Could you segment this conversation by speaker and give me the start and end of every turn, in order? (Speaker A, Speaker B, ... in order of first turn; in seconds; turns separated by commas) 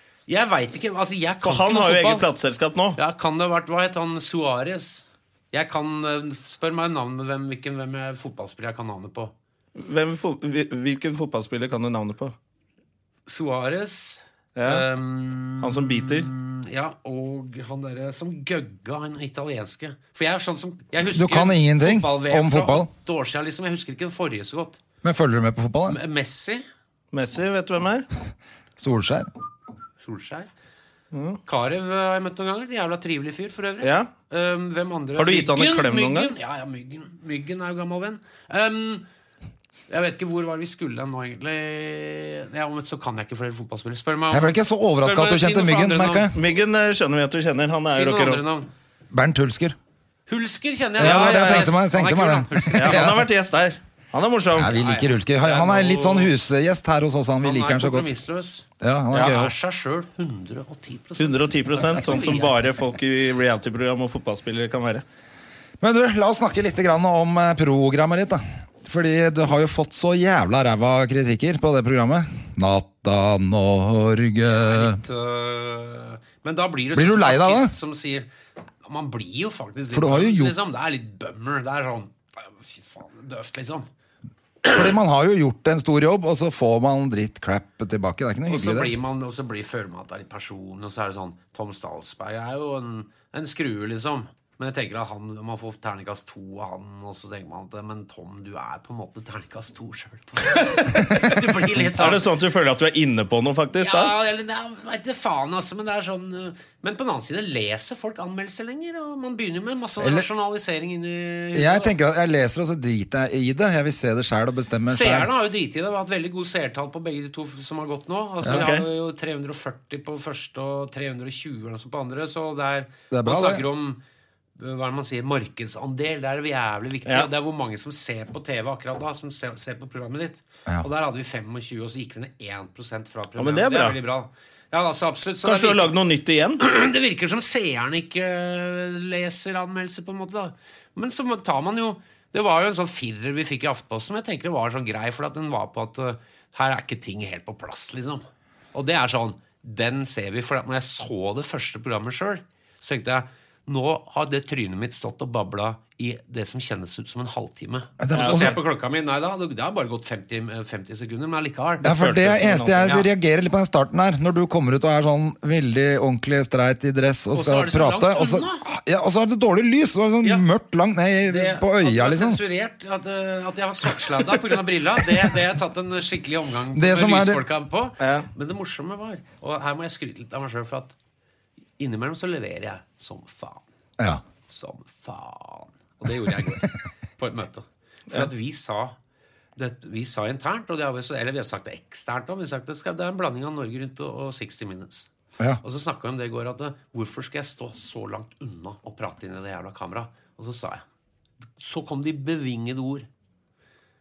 Speaker A: 0.3-2.3, Speaker B: 1.4-3.0, Speaker A: 3.0-9.3, Speaker B: 9.8-12.3, Speaker A: 13.3-24.8, Speaker B: 14.6-14.9, Speaker B: 15.6-16.3, Speaker C: 21.1-22.9, Speaker C: 25.0-26.0, Speaker A: 25.9-26.6, Speaker B: 27.1-28.1, Speaker C: 28.8-29.3, Speaker A: 30.0-30.5, Speaker B: 31.1-31.4, Speaker A: 31.5-39.1, Speaker B: 33.8-34.1, Speaker B: 35.2-36.3, Speaker A: 39.9-46.3, Speaker C: 44.3-46.4, Speaker B: 46.3-48.4, Speaker A: 47.9-48.7, Speaker C: 49.1-49.8, Speaker A: 50.3-53.1, Speaker C: 51.0-53.2, Speaker B: 51.0-51.8, Speaker B: 52.7-54.8, Speaker C: 54.5-58.1, Speaker A: 54.7-56.3, Speaker A: 57.4-62.6, Speaker C: 58.8-59.5, Speaker B: 61.2-65.0, Speaker C: 65.8-75.0, Speaker A: 74.5-78.3, Speaker C: 76.9-77.7, Speaker A: 78.8-83.9, Speaker C: 79.9-80.6, Speaker C: 84.7-88.9, Speaker A: 88.5-102.3, Speaker B: 100.6-101.0, Speaker B: 101.7-104.1, Speaker A: 103.8-111.9, Speaker C: 110.0-110.3, Speaker C: 111.5-115.3, Speaker A: 114.9-124.0, Speaker C: 118.4-118.7, Speaker B: 118.5-118.9, Speaker C: 123.1-123.7, Speaker A: 124.6-135.9, Speaker B: 133.4-134.0, Speaker B: 135.4-136.6, Speaker A: 136.6-162.1, Speaker C: 158.0-158.6, Speaker B: 158.1-158.6, Speaker C: 161.8-172.4, Speaker B: 161.8-163.0, Speaker A: 162.8-163.1, Speaker A: 167.3-168.7, Speaker A: 170.2-170.5, Speaker A: 171.2-180.9, Speaker C: 176.7-177.4, Speaker B: 178.0-178.3, Speaker A: 181.8-183.6, Speaker A: 184.5-189.0, Speaker A: 189.6-195.1, Speaker A: 195.6-200.8, Speaker A: 201.6-203.1